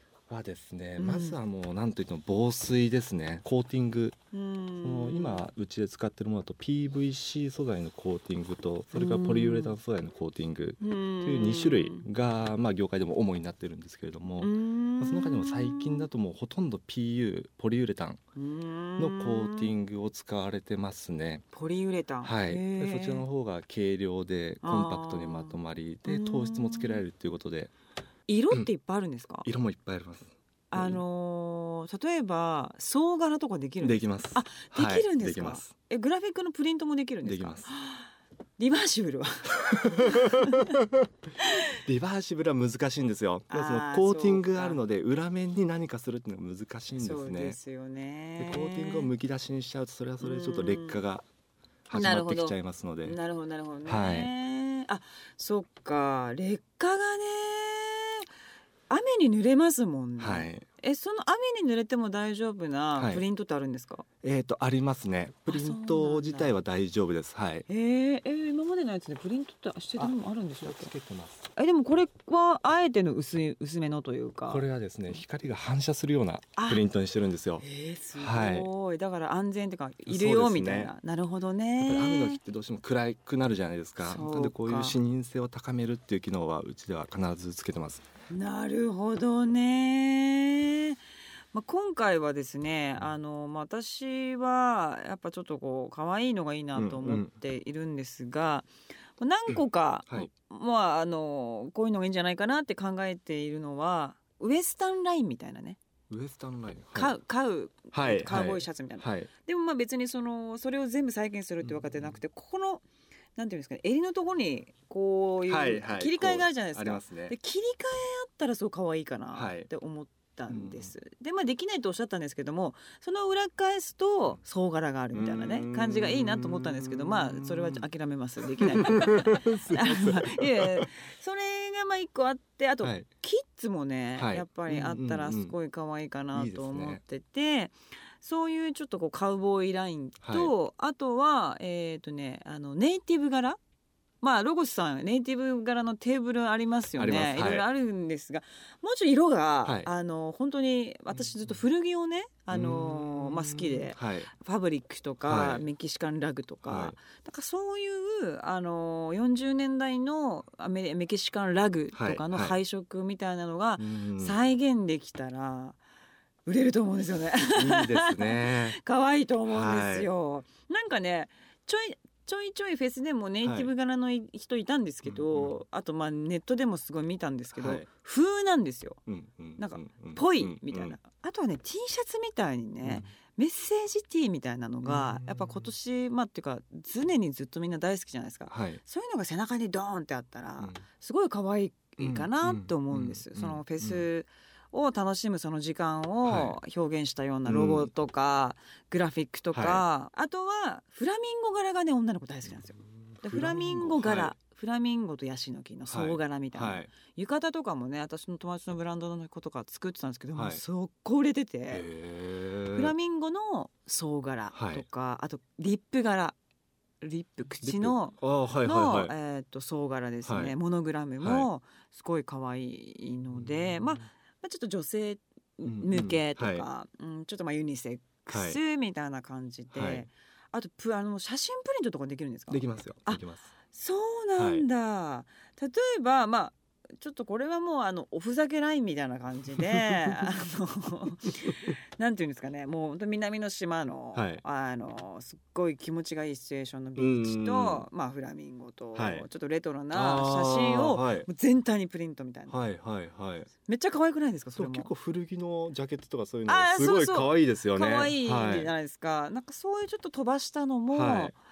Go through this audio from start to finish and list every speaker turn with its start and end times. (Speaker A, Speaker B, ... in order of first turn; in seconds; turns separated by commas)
Speaker A: 0.3-4.2, Speaker B: 1.0-1.4, Speaker B: 4.3-5.5, Speaker A: 4.8-18.2, Speaker B: 8.9-9.8, Speaker B: 10.8-12.1, Speaker B: 14.4-16.1, Speaker B: 18.4-19.7, Speaker A: 19.0-21.4, Speaker B: 21.5-23.2, Speaker A: 22.2-27.7, Speaker B: 24.6-27.0, Speaker B: 28.3-29.5, Speaker A: 29.4-31.0, Speaker B: 30.7-40.7, Speaker A: 33.8-35.7, Speaker A: 37.2-37.7, Speaker A: 39.7-40.5, Speaker A: 41.8-47.6, Speaker B: 43.5-44.8, Speaker B: 47.0-49.1, Speaker A: 48.4-51.2, Speaker B: 50.2-51.0, Speaker A: 51.9-53.2, Speaker B: 51.9-58.2, Speaker A: 53.9-54.3, Speaker B: 58.9-64.0, Speaker A: 60.2-60.6, Speaker A: 63.0-63.2, Speaker A: 64.2-67.7, Speaker B: 65.5-66.5, Speaker B: 67.7-70.9, Speaker A: 70.0-71.5, Speaker B: 71.5-74.6, Speaker A: 74.5-77.6, Speaker B: 76.5-76.8, Speaker B: 77.6-82.4, Speaker A: 78.1-78.7, Speaker A: 80.1-80.9, Speaker A: 81.8-88.0, Speaker B: 84.0-85.0, Speaker B: 88.3-91.0, Speaker B: 91.5-98.7, Speaker A: 96.7-97.3, Speaker B: 99.2-105.8, Speaker A: 99.5-100.3, Speaker A: 106.1-107.2, Speaker B: 106.9-112.8, Speaker A: 107.9-109.3, Speaker A: 111.6-112.2, Speaker B: 113.3-143.6, Speaker A: 115.5-117.3, Speaker A: 119.3-119.7, Speaker A: 120.5-120.9, Speaker A: 125.1-127.8, Speaker A: 128.6-130.9, Speaker A: 134.2-135.5, Speaker A: 136.3-137.0, Speaker A: 140.2-140.5, Speaker B: 144.2-165.8, Speaker A: 147.0-147.7, Speaker A: 149.6-149.9, Speaker A: 152.5-154.3, Speaker A: 155.2-155.6, Speaker A: 156.6-156.9, Speaker A: 161.9-162.6, Speaker A: 163.8-164.4, Speaker B: 166.4-179.0, Speaker A: 167.5-168.8, Speaker A: 169.5-170.1, Speaker A: 173.4-173.7, Speaker A: 175.0-175.6, Speaker A: 177.5-177.9, Speaker A: 179.1-181.0, Speaker B: 179.6-211.9, Speaker A: 182.8-183.1, Speaker A: 184.8-185.6, Speaker A: 188.5-188.8, Speaker A: 192.0-194.1, Speaker A: 196.2-196.6, Speaker A: 197.4-197.9, Speaker A: 199.5-199.8, Speaker A: 203.1-204.3, Speaker A: 205.9-206.9, Speaker A: 210.3-210.6, Speaker A: 211.7-212.9, Speaker B: 212.7-216.3, Speaker A: 214.5-214.8, Speaker B: 217.0-252.6, Speaker A: 217.6-219.1, Speaker A: 220.2-220.5, Speaker A: 221.2-221.5, Speaker A: 223.3-223.9, Speaker A: 225.6-226.7, Speaker A: 228.3-228.6, Speaker A: 229.7-230.1, Speaker A: 232.5-233.5, Speaker A: 234.3-234.6, Speaker A: 244.1-244.4, Speaker A: 247.0-247.8, Speaker A: 248.9-249.3, Speaker A: 249.9-251.3, Speaker A: 252.5-253.5, Speaker B: 253.6-254.9, Speaker A: 254.6-258.7, Speaker B: 256.5-261.4, Speaker A: 260.9-261.3